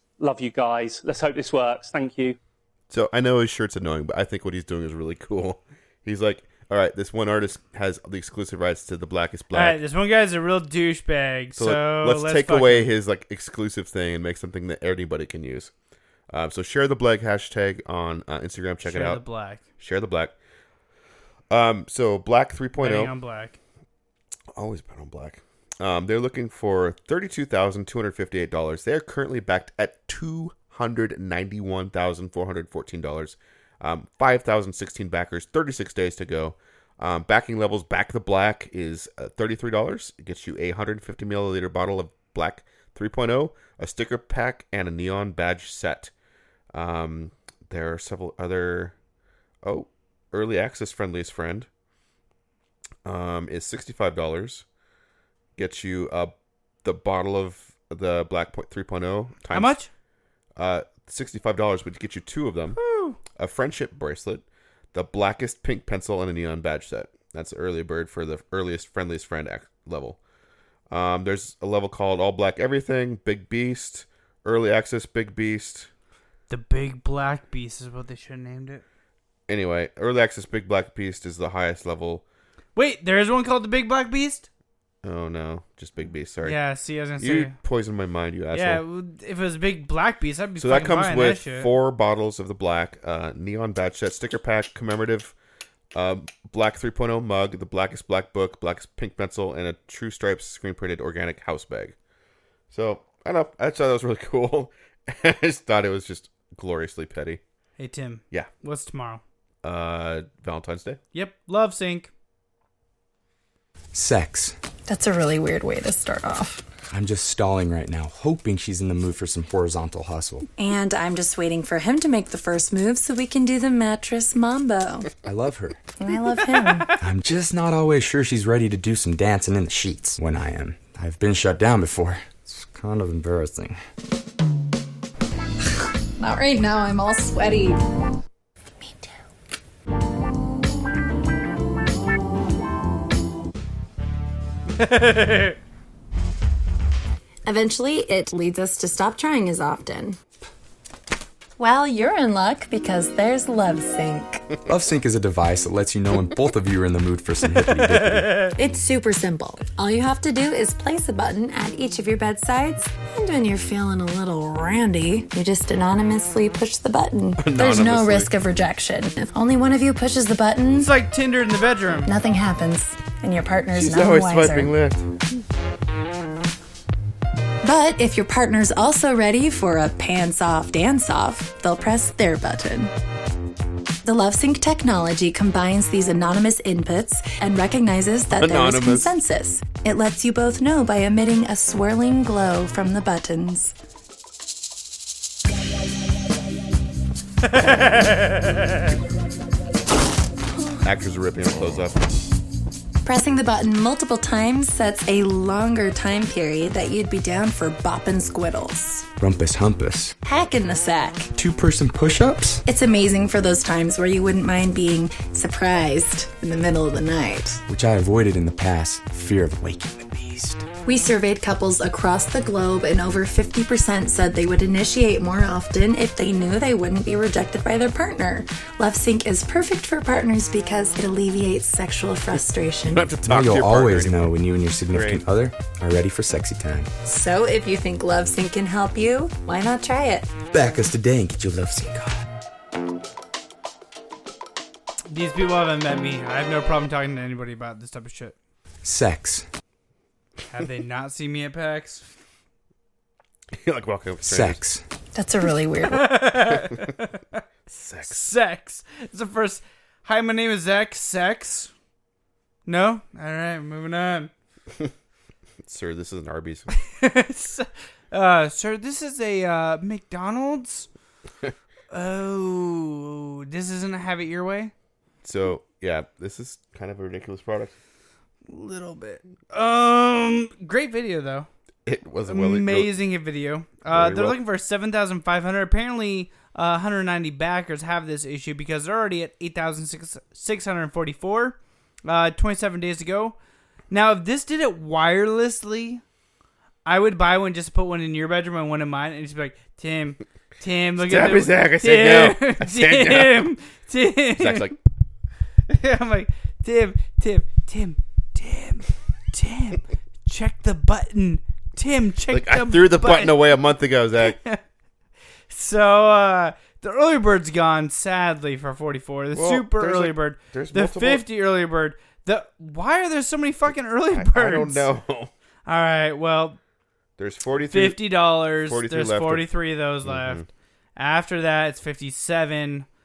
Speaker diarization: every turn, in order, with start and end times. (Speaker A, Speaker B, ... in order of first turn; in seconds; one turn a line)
Speaker A: 0.2-2.4
Speaker B: 2.9-9.8
Speaker C: 9.5-12.9
Speaker B: 11.6-15.7
Speaker B: 16.3-19.2
Speaker C: 18.9-19.6
Speaker B: 19.8-20.4
Speaker B: 21.5-23.1
Speaker C: 22.8-23.6
Speaker B: 24.5-46.1
Speaker B: 46.7-49.0
Speaker B: 49.6-51.7
Speaker B: 53.0-54.6
Speaker B: 55.6-59.8
Speaker C: 59.5-59.9
Speaker B: 60.6-62.8
Speaker C: 62.8-63.2
Speaker B: 63.3-70.2
Speaker B: 70.9-75.9
Speaker C: 76.5-78.8
Speaker B: 79.5-82.2
Speaker C: 82.8-84.5
Speaker B: 85.0-86.6
Speaker C: 86.4-87.6
Speaker B: 87.2-88.8
Speaker C: 88.5-91.7
Speaker B: 90.6-95.3
Speaker B: 95.9-102.0
Speaker B: 102.7-107.4
Speaker C: 107.8-109.2
Speaker B: 109.6-111.0
Speaker C: 111.1-112.1
Speaker D: 113.9-114.5
Speaker E: 114.9-116.7
Speaker D: 116.9-120.5
Speaker E: 120.6-125.1
Speaker D: 125.2-125.8
Speaker E: 126.0-126.9
Speaker D: 127.0-133.8
Speaker E: 136.2-137.8
Speaker E: 138.8-139.2
Speaker C: 144.8-145.6
Speaker E: 147.5-150.2
Speaker E: 151.6-154.5
Speaker D: 154.7-158.5
Speaker E: 158.6-170.9
Speaker B: 167.4-168.3
Speaker C: 170.7-172.1
Speaker E: 172.1-174.8
Speaker B: 173.7-175.1
Speaker E: 177.6-182.9
Speaker E: 184.0-193.8
Speaker B: 188.3-189.1
Speaker C: 197.4-198.7
Speaker B: 200.8-202.0
Speaker E: 203.0-209.1
Speaker D: 209.2-210.2
Speaker E: 210.2-211.3
Speaker D: 211.3-212.6
Speaker E: 212.7-217.6
Speaker D: 217.7-220.7
Speaker E: 220.8-233.2
Speaker B: 232.3-235.2
Speaker D: 233.2-236.9
Speaker E: 237.1-240.4
Speaker D: 240.4-242.3
Speaker C: 245.1-248.4
Speaker D: 248.8-249.4
Speaker C: 250.5-252.1
Speaker B: 253.5-254.6
Speaker D: 254.2-254.8
Speaker E: 255.1-256.2
Speaker C: 255.8-257.4
Speaker B: 256.4-256.9
Speaker B: 257.7-258.2
Speaker C: 258.0-261.7
Speaker C: 262.7-264.3
Speaker B: 265.6-266.7
Speaker C: 266.9-270.9
Speaker C: 271.9-274.7
Speaker B: 275.2-277.8
Speaker C: 278.5-281.5
Speaker B: 281.9-282.9
Speaker C: 282.3-293.4
Speaker B: 283.9-284.4
Speaker C: 293.9-296.0
Speaker C: 296.9-304.7
Speaker B: 301.0-303.5
Speaker B: 304.4-304.8
Speaker C: 305.7-313.6
Speaker B: 312.3-314.4
Speaker C: 314.2-314.6
Speaker C: 315.5-324.9
Speaker B: 319.3-321.2
Speaker B: 324.1-325.3
Speaker C: 325.7-326.6
Speaker B: 327.2-330.5
Speaker C: 327.7-330.4
Speaker C: 331.0-332.9